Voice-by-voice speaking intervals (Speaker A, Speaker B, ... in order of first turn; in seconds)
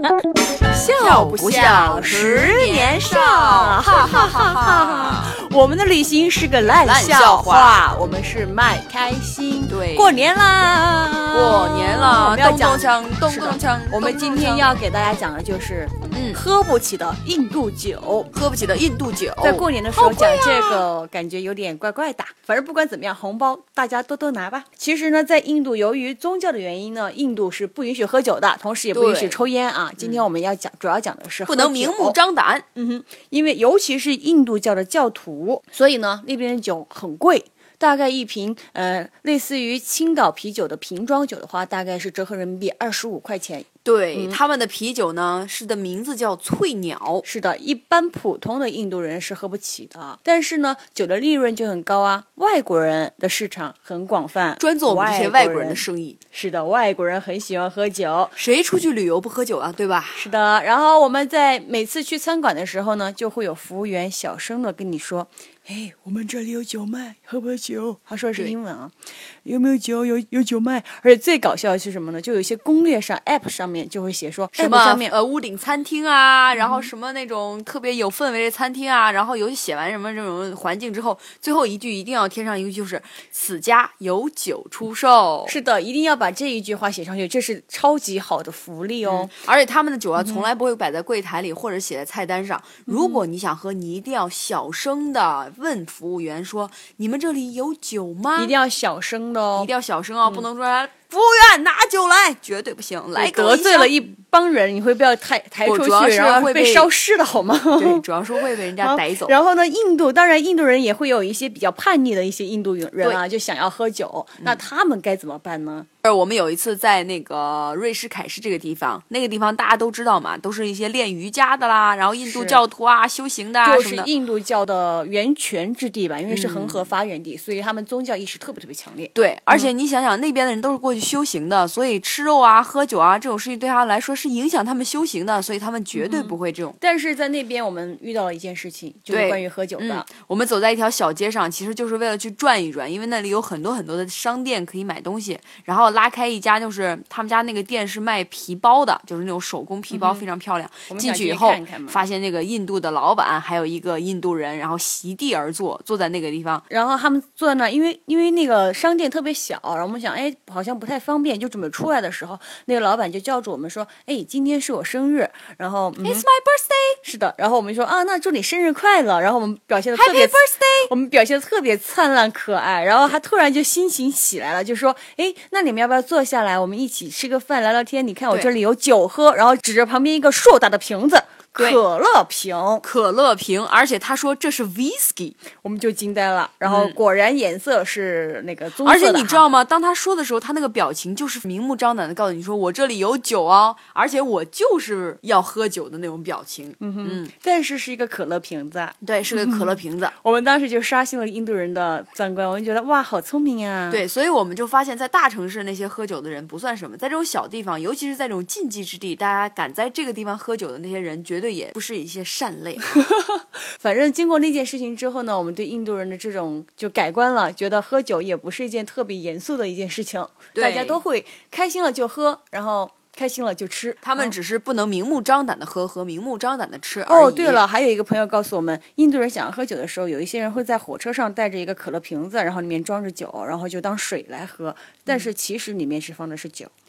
Speaker A: 0.7-18.3, 19.4-32.2, 32.8-44.4, 47.2-58.3, 60.2-68.9, 69.4-75.1, 76.5-76.9, 85.5-89.3, 90.2-90.5, 92.9-93.2, 98.3-99.7, 103.2-108.0, 108.8-115.9, 122.2-122.6, 123.6-129.7, 135.9-140.1, 149.9-150.2, 150.9-152.0, 156.7-166.2, 167.0-182.8, 185.6-189.4, 196.8-204.0, 213.0-224.3, 227.1-236.7
Speaker B: 0.9-5.3, 6.8-7.8, 9.7-10.2, 11.3-14.7, 16.1-16.4, 18.3-20.8, 28.9-29.4, 30.0-30.2, 31.5-32.7, 43.8-47.2, 54.6-56.2, 58.4-60.3, 74.5-85.5, 89.0-98.5, 99.5-103.9, 105.6-106.9, 107.8-109.3, 116.0-124.1, 126.3-126.8, 129.1-136.8, 139.1-156.6, 166.0-167.0, 169.9-170.9, 181.6-181.8, 182.8-185.4, 186.6-187.0, 188.8-197.3, 199.0-200.1, 203.9-213.0, 220.5-221.0, 224.0-227.6